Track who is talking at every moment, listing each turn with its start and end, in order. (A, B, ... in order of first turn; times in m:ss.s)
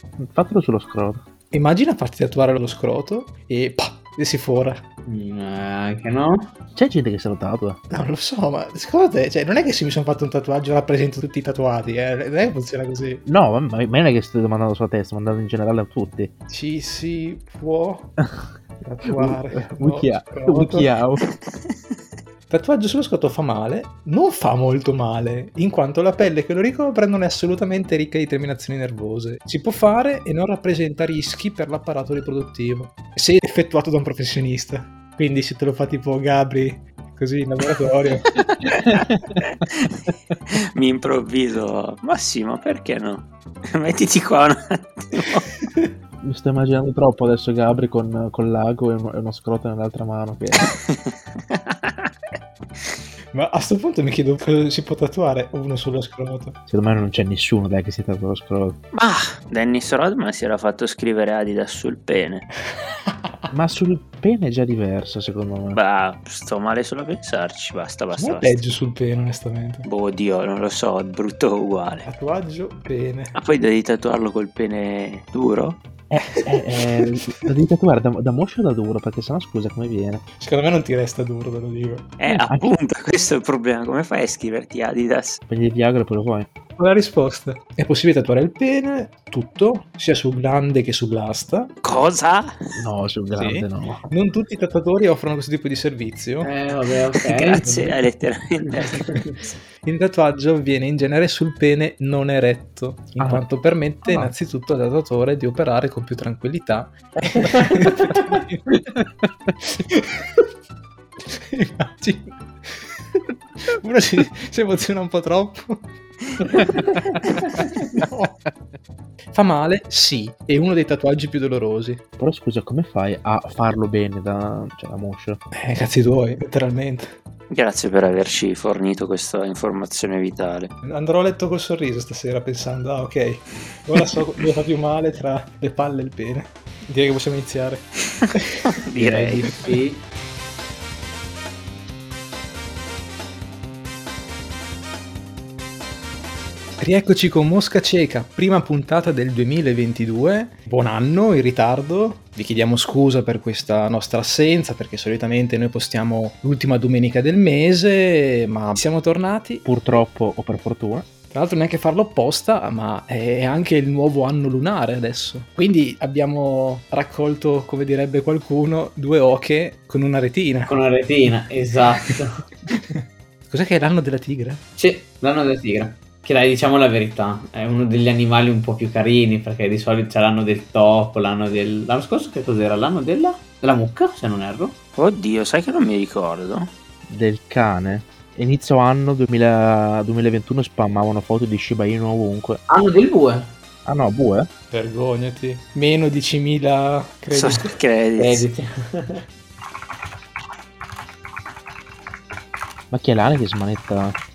0:00.2-0:01.2 A
0:01.5-0:04.8 B
0:05.0-0:06.5 C
0:06.7-0:07.8 A
0:07.9-0:13.2 B
0:13.2-0:16.3 A
0:16.5-0:18.1 B
0:18.8-0:20.9 B
0:19.1-0:21.2 A
0:21.5-0:21.7 D
0:22.5-0:38.4 B
0:38.3-0:38.8 D
0:40.7-0:45.5 D
0:46.2-0:50.7 A
0:50.9-0:52.0 D
0:53.3-0:56.6 B
0:56.7-0:58.8 A
0:58.9-1:02.4 D
1:03.5-1:05.8 A
1:05.7-1:08.6 D
1:08.2-1:09.9 B
1:09.8-1:12.1 D
1:12.0-1:13.3 B
1:13.3-1:15.8 D
1:16.1-1:20.2 A
1:16.4-1:16.9 B
1:20.4-1:22.1 B
1:22.2-1:25.4 D
1:22.3-1:22.8 A
1:25.5-1:26.5 A
1:26.8-1:31.7 B
1:31.8-1:32.8 D
1:32.8-1:34.0 A
1:33.3-1:36.5 B
1:36.4-1:38.1 C
1:37.2-1:39.3 D
1:38.8-1:39.4 C
1:39.8-1:48.6 B
1:43.2-1:43.4 A
1:44.0-1:44.3 A
1:49.7-1:50.4 B
1:51.5-1:52.4 B
1:53.7-1:55.9 B
1:57.1-1:57.4 A
1:57.9-1:58.4 B
1:59.3-2:02.0 B
2:02.2-2:05.4 A
2:05.5-2:07.1 B
2:07.5-2:10.7 D
2:10.8-2:18.7 B
2:18.9-2:19.5 D
2:18.9-2:20.0 C
2:26.8-2:39.6 B
2:39.6-2:41.1 A
2:41.3-2:50.7 B
2:50.7-2:52.4 C
2:52.7-2:54.6 B
2:54.8-3:04.8 C
3:05.0-3:06.7 D
3:07.1-3:12.6 A
3:12.7-3:13.5 C
3:13.8-3:14.5 A
3:14.7-3:17.8 B
3:17.3-3:18.4 D
3:18.2-3:19.2 C
3:22.9-3:24.2 A